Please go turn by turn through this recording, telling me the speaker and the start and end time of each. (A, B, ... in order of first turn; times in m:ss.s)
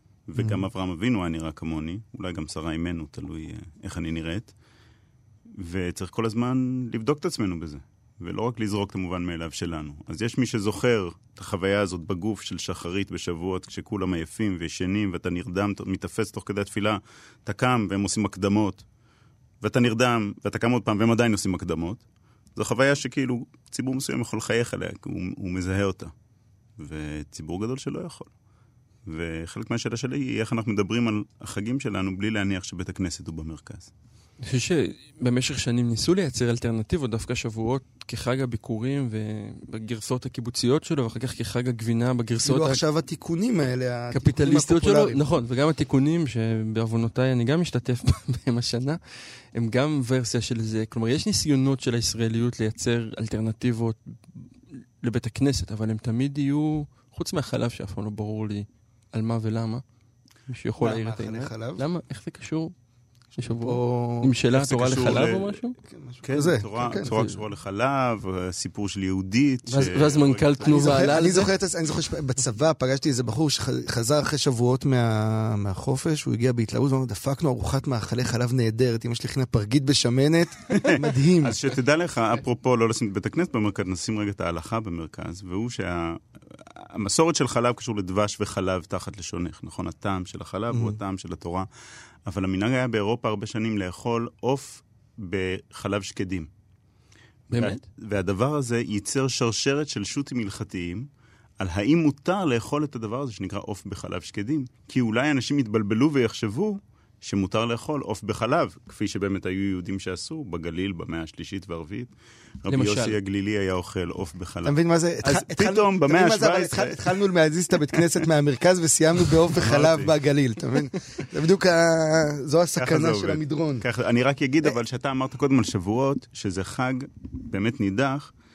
0:00.3-0:04.5 A
0:00.4-0:00.6 B
0:05.5-0:18.8 A
0:19.6-0:22.0 A
0:22.6-0:26.1 A
0:26.8-0:28.3 A
0:29.0-0:33.9 A
0:34.4-0:42.8 C
0:42.4-0:45.2 B
0:44.1-0:49.0 C
0:49.5-0:59.8 C
1:00.5-1:02.7 C
1:00.8-1:01.8 B
1:03.4-1:05.8 C
1:03.6-1:04.3 B
1:04.5-1:05.6 A
1:05.9-1:07.1 B
1:06.2-1:10.9 A
1:07.0-1:07.3 C
1:09.7-1:11.5 C
1:10.6-1:21.6 B
1:20.7-1:31.7 A
1:30.7-1:31.0 B
1:32.2-1:36.5 A
1:37.5-1:37.8 C
1:37.6-1:41.1 A
1:41.6-1:52.1 A
1:52.6-1:57.1 A
1:52.7-1:53.2 C
1:54.6-2:03.8 B
1:59.6-2:00.1 A
2:02.8-2:08.3 A